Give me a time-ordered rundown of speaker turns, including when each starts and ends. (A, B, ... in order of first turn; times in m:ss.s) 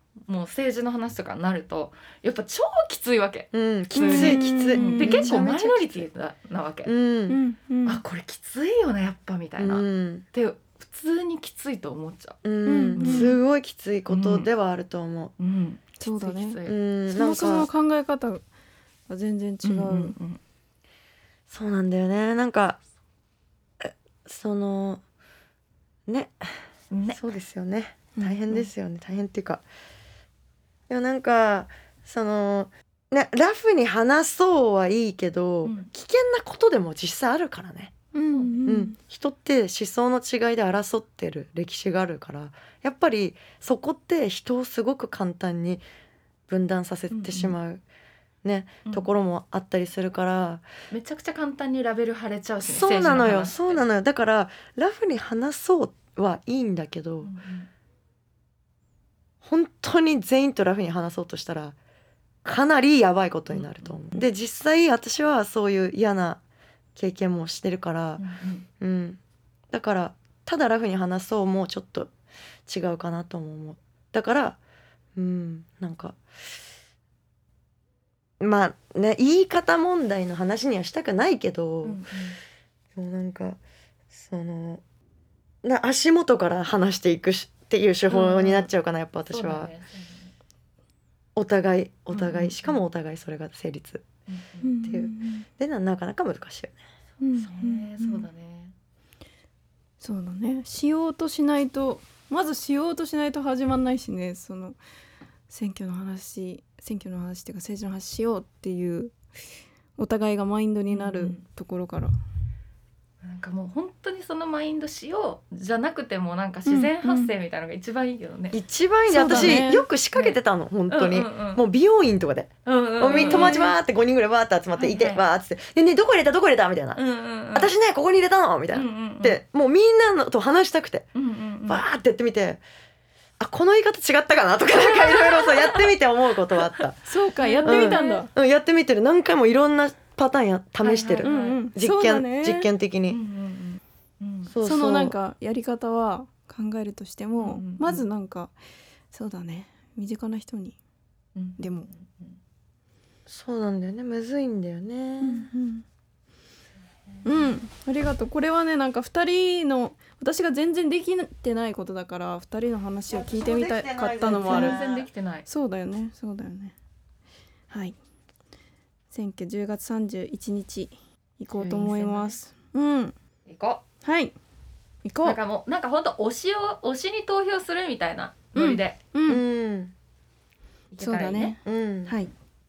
0:00.3-0:06.9 A
0:03.5-0:06.1 B
0:04.0-0:05.4 C
0:06.8-0:07.4 B
0:07.3-0:08.0 C
0:07.8-0:12.4 A
0:09.6-0:10.2 B
0:12.4-0:15.3 B
0:12.6-0:13.3 C
0:13.0-0:13.4 A
0:14.1-0:14.5 A
0:15.4-0:16.8 A
0:16.0-0:16.6 C
0:16.6-0:17.7 B
0:17.1-0:18.4 C
0:19.1-0:20.2 C
0:19.6-0:20.4 A
0:21.5-0:22.8 B
0:23.8-0:25.0 B
0:26.1-0:26.5 B
0:26.9-0:27.2 A
0:27.1-0:29.6 B
0:28.2-0:28.6 C
0:30.9-0:37.9 B
0:35.6-0:35.9 A
0:38.1-0:39.0 C
0:38.3-0:38.6 A
0:38.6-0:45.8 B
0:46.5-0:47.8 B
0:47.1-0:47.6 A
0:48.4-0:50.6 B
0:50.9-0:53.8 A
0:52.6-0:57.3 B
0:57.2-0:57.7 A
0:59.4-1:01.8 B
1:02.4-1:06.4 B
1:03.5-1:04.2 A
1:06.9-1:08.2 B
1:08.2-1:08.6 A
1:08.8-1:09.2 B
1:09.7-1:12.1 B
1:12.7-1:14.6 B
1:15.2-1:16.2 B
1:18.4-1:22.0 B
1:21.8-1:22.4 A
1:23.0-1:23.6 B
1:24.1-1:24.8 B
1:25.6-1:29.7 B
1:28.1-1:28.7 A
1:29.3-1:30.3 A
1:31.3-1:34.1 B
1:32.1-1:32.8 A
1:34.3-1:34.9 A
1:34.6-1:35.4 C
1:34.9-1:36.8 B
1:37.2-1:38.3 C
1:37.4-1:38.7 A
1:40.0-1:44.8 C
1:45.5-1:49.1 C
1:50.0-1:52.1 C
1:50.9-1:51.4 A
1:53.2-1:58.6 A
1:56.7-1:57.3 C
1:58.5-2:07.0 B
1:59.1-1:59.8 C
1:59.2-2:00.4 A
2:00.9-2:01.6 A
2:02.6-2:03.7 A
2:03.1-2:03.7 C
2:04.8-2:05.2 A
2:06.9-2:07.7 A
2:07.5-2:11.1 B
2:08.7-2:09.4 A
2:11.1-2:11.8 A
2:11.7-2:12.6 B
2:13.4-2:17.0 B
2:14.7-2:15.9 A
2:16.6-2:18.3 A
2:17.0-2:18.3 C
2:17.6-2:23.2 B
2:20.8-2:21.6 A
2:21.2-2:22.7 C
2:23.1-2:24.5 A
2:24.5-2:25.2 B
2:24.6-2:28.5 C
2:27.4-2:28.0 A
2:29.1-2:30.8 C
2:31.4-2:32.4 A
2:31.6-2:31.9 C
2:33.3-2:35.5 B
2:35.2-2:35.8 C
2:37.1-2:37.5 A
2:37.2-2:44.8 C
2:43.1-2:45.1 B
2:44.3-2:45.5 A
2:45.4-2:46.7 C
2:47.7-2:48.0 C
2:49.1-2:53.1 C
2:51.5-2:52.4 A
2:53.4-2:53.8 A
2:54.0-2:54.3 C
2:55.0-2:55.4 C
2:55.2-2:59.0 A
2:58.5-2:59.4 C
2:59.3-2:59.9 B
3:00.9-3:01.6 A
3:01.0-3:02.3 C
3:01.6-3:02.2 B